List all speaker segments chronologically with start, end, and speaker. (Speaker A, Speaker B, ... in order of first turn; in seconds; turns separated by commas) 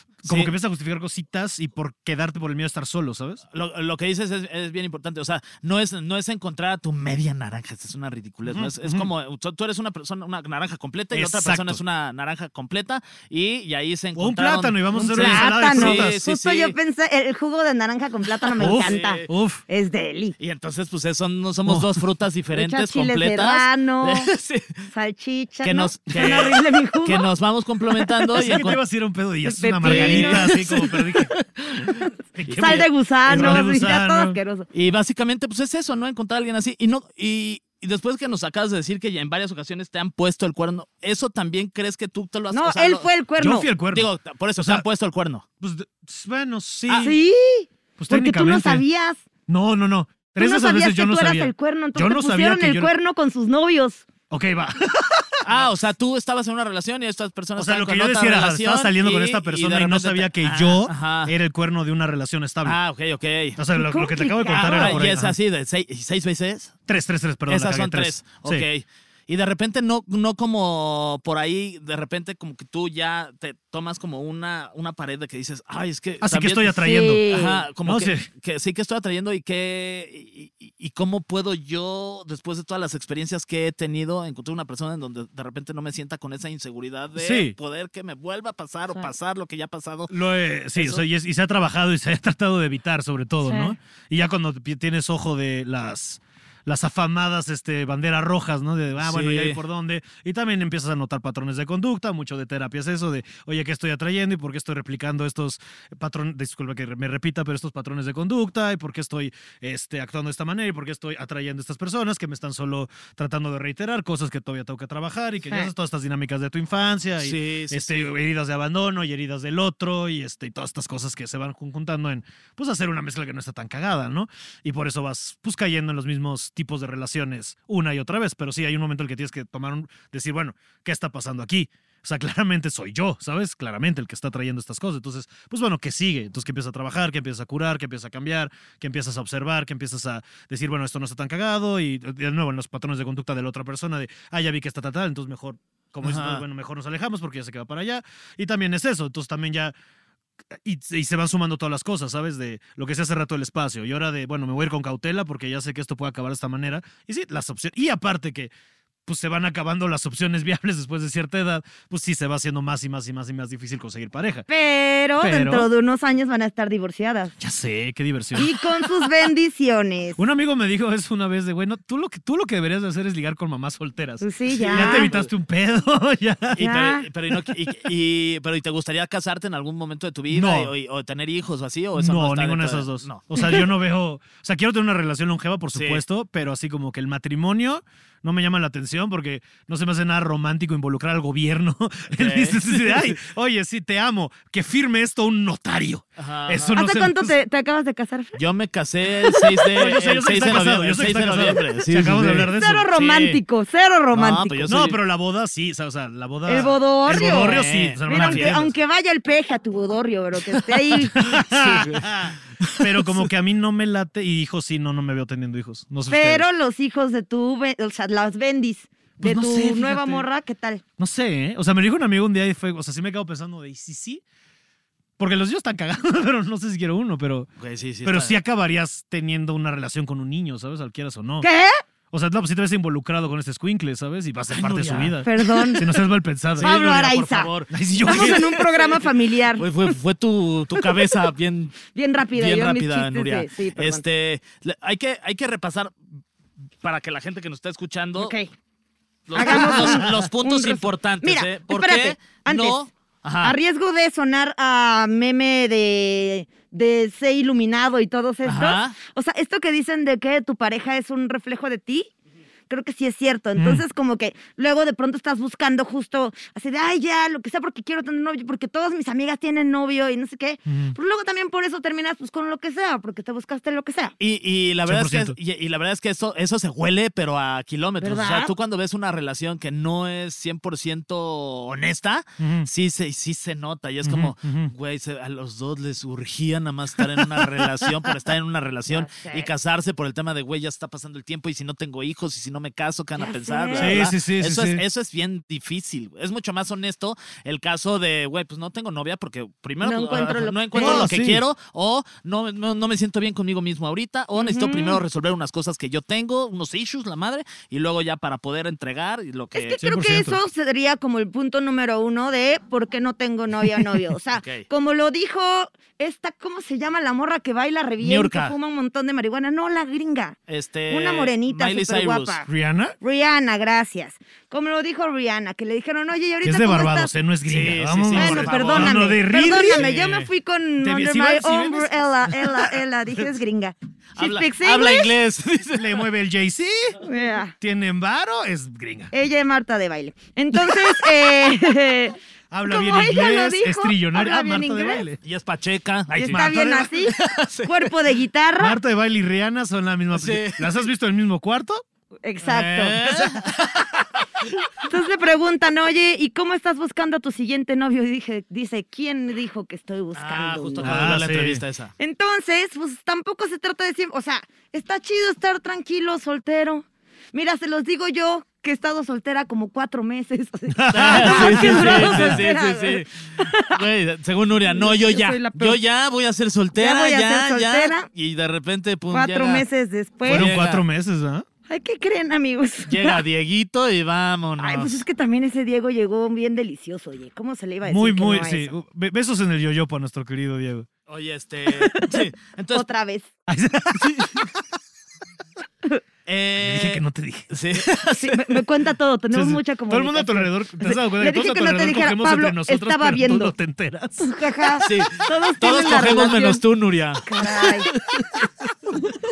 Speaker A: 0.2-3.4, Speaker B: 0.2-0.5, Speaker B: 3.5-16.8, Speaker A: 8.4-9.1, Speaker A: 11.1-11.8, Speaker A: 14.2-16.1, Speaker C: 14.9-20.4, Speaker B: 18.4-19.3, Speaker A: 18.6-19.6, Speaker B: 20.4-24.9, Speaker A: 21.6-22.0, Speaker C: 22.5-24.3, Speaker C: 24.9-27.2, Speaker B: 25.6-28.8, Speaker A: 28.4-34.4, Speaker C: 29.4-30.9, Speaker B: 29.8-31.2, Speaker B: 32.5-33.8, Speaker C: 32.5-34.7, Speaker B: 34.7-43.1, Speaker C: 42.5-43.7, Speaker A: 43.4-44.8, Speaker B: 43.9-45.4, Speaker A: 45.6-47.1, Speaker B: 46.9-47.1, Speaker C: 47.0-49.2, Speaker A: 48.0-48.8, Speaker A: 49.5-52.9, Speaker C: 50.4-54.0, Speaker A: 54.3-55.6, Speaker B: 55.4-61.3, Speaker A: 57.6-62.8, Speaker B: 62.6-63.6, Speaker A: 63.6-65.3, Speaker C: 63.7-65.0, Speaker B: 64.5-66.7, Speaker A: 66.9-68.7, Speaker B: 67.5-90.1, Speaker A: 76.2-77.2, Speaker C: 76.8-77.6, Speaker A: 77.8-78.3, Speaker A: 87.2-87.5, Speaker A: 90.1-149.7, Speaker B: 90.7-91.0, Speaker C: 93.4-93.8, Speaker B: 99.0-99.6, Speaker B: 117.2-118.1, Speaker B: 146.0-146.4, Speaker A: 150.6-158.5, Speaker A: 159.1-164.4, Speaker C: 164.5-167.3, Speaker A: 165.2-165.7, Speaker A: 167.4-168.8, Speaker C: 168.3-170.2, Speaker A: 170.2-176.6, Speaker C: 174.2-175.1, Speaker B: 174.6-175.3, Speaker B: 176.5-183.3, Speaker C: 176.6-177.1, Speaker A: 180.3-180.7, Speaker A: 182.0-197.3, Speaker B: 185.7-186.0, Speaker B: 192.1-193.2, Speaker B: 196.2-196.8, Speaker C: 196.7-198.4, Speaker B: 198.3-203.4, Speaker A: 199.7-202.9, Speaker C: 202.5-204.7, Speaker B: 204.1-205.0, Speaker A: 204.7-208.7, Speaker C: 206.5-211.2, Speaker B: 207.1-208.6, Speaker A: 211.1-216.4, Speaker B: 211.2-213.3, Speaker C: 216.1-220.8, Speaker A: 219.2-220.2, Speaker A: 221.0-224.2, Speaker A: 225.2-227.5, Speaker B: 227.6-228.4, Speaker A: 228.0-231.5, Speaker C: 231.4-231.8, Speaker A: 232.1-238.4, Speaker B: 234.5-235.2, Speaker C: 235.2-235.8, Speaker B: 236.6-241.8, Speaker C: 236.6-237.5, Speaker C: 238.0-239.7, Speaker C: 240.7-241.0, Speaker C: 241.9-244.0, Speaker B: 242.3-246.0, Speaker B: 246.8-248.3, Speaker C: 248.2-248.5, Speaker B: 249.3-253.6, Speaker C: 249.3-252.9, Speaker C: 253.4-262.1, Speaker B: 258.4-258.9, Speaker C: 262.7-274.1, Speaker A: 263.6-263.8, Speaker A: 270.7-270.9, Speaker B: 274.2-309.8, Speaker A: 274.8-275.4, Speaker C: 278.0-278.5, Speaker A: 282.4-282.7, Speaker A: 284.0-284.7, Speaker C: 288.9-289.5, Speaker C: 293.1-294.0, Speaker A: 293.8-294.8, Speaker C: 299.8-301.1, Speaker A: 300.8-301.4, Speaker C: 304.4-305.0, Speaker C: 309.5-320.4, Speaker A: 309.8-310.4, Speaker B: 314.4-314.6, Speaker B: 318.0-318.6, Speaker B: 320.5-322.4, Speaker C: 320.9-322.5, Speaker A: 322.5-322.9, Speaker C: 323.0-327.1, Speaker A: 326.4-330.3, Speaker B: 327.4-330.3, Speaker C: 328.1-335.1, Speaker A: 330.8-332.8, Speaker B: 334.1-336.1, Speaker A: 335.7-337.0, Speaker C: 337.0-337.5, Speaker A: 337.6-339.1, Speaker C: 339.1-345.0, Speaker A: 342.5-345.2, Speaker B: 345.2-346.4, Speaker A: 346.2-346.9, Speaker C: 346.3-348.8, Speaker B: 347.1-347.9, Speaker A: 348.6-351.8, Speaker B: 350.1-350.7, Speaker C: 352.2-353.0, Speaker B: 352.4-354.7, Speaker A: 353.1-353.5, Speaker C: 354.8-361.0, Speaker B: 360.1-361.9, Speaker A: 360.8-361.6, Speaker C: 362.0-373.8, Speaker A: 370.7-372.5, Speaker B: 370.9-379.6, Speaker C: 374.7-375.8, Speaker C: 376.7-378.1, Speaker C: 379.1-380.5, Speaker B: 380.2-380.8, Speaker A: 380.2-381.4, Speaker C: 381.7-383.2, Speaker B: 382.9-385.0, Speaker C: 384.6-388.7, Speaker A: 387.9-390.9, Speaker B: 391.1-392.9, Speaker C: 391.7-393.3, Speaker A: 393.5-394.6, Speaker B: 393.9-394.5, Speaker B: 396.2-398.6, Speaker A: 396.6-397.6, Speaker C: 398.1-403.5, Speaker A: 399.3-404.4, Speaker C: 404.2-406.6, Speaker B: 404.8-408.5, Speaker C: 407.2-407.9